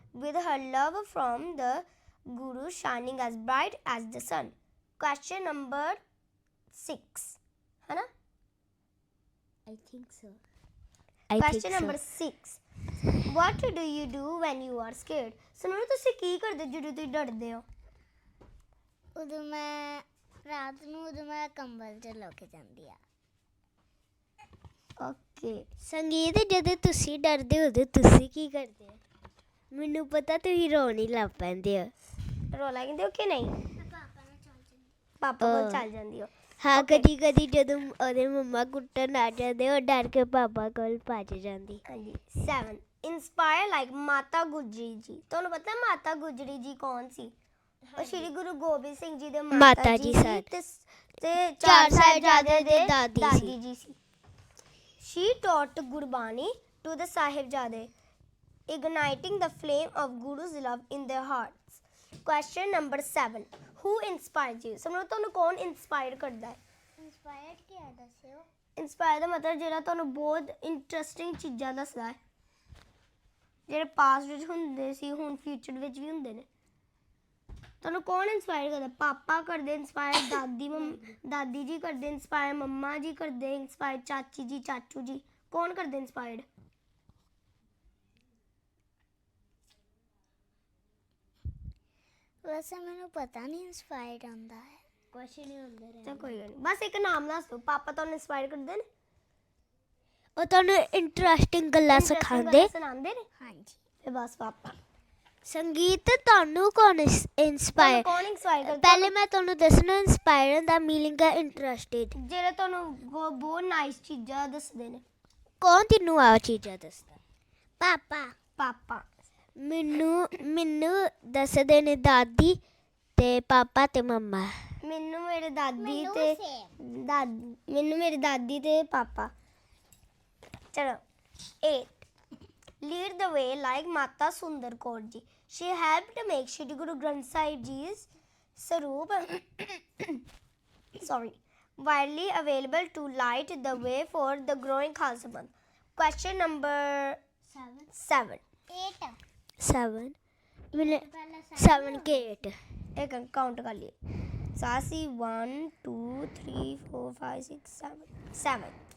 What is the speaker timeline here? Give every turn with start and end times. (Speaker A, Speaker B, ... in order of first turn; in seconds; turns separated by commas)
Speaker A: 0.1-6.0, Speaker A: 6.7-8.1, Speaker B: 9.7-10.4, Speaker B: 11.3-12.0, Speaker A: 11.4-12.6, Speaker A: 13.2-17.6, Speaker C: 19.1-23.0, Speaker A: 25.0-25.6, Speaker B: 25.8-29.0, Speaker B: 29.7-31.9, Speaker A: 32.5-33.5, Speaker C: 33.7-34.9, Speaker A: 35.2-37.1, Speaker B: 35.4-35.9, Speaker B: 36.6-41.8, Speaker A: 41.9-47.3, Speaker B: 47.9-48.3, Speaker A: 48.0-54.0, Speaker B: 49.5-50.5, Speaker B: 51.6-53.5, Speaker A: 55.0-57.9, Speaker A: 58.7-66.6, Speaker C: 67.0-68.5, Speaker A: 68.8-72.2, Speaker A: 73.7-76.5, Speaker A: 77.8-86.5, Speaker C: 92.4-94.8, Speaker B: 95.1-96.4, Speaker A: 96.0-98.8, Speaker B: 100.4-102.7, Speaker A: 101.9-103.2, Speaker C: 103.4-103.8, Speaker A: 104.0-104.8, Speaker B: 105.4-108.1, Speaker A: 107.8-109.1, Speaker B: 108.6-112.2, Speaker A: 112.2-115.0, Speaker B: 115.6-117.2, Speaker C: 117.8-118.3, Speaker A: 118.6-119.0, Speaker B: 119.6-122.6, Speaker B: 123.2-124.6, Speaker A: 124.8-129.3, Speaker C: 125.8-126.7, Speaker A: 130.7-131.0, Speaker A: 131.6-131.9, Speaker A: 132.8-140.2, Speaker A: 141.0-147.2, Speaker B: 147.5-147.9, Speaker A: 147.9-148.4, Speaker C: 148.7-149.2, Speaker B: 149.6-150.1, Speaker B: 150.7-151.0, Speaker C: 150.7-152.5, Speaker B: 151.6-152.6, Speaker A: 152.9-153.9, Speaker A: 154.5-158.7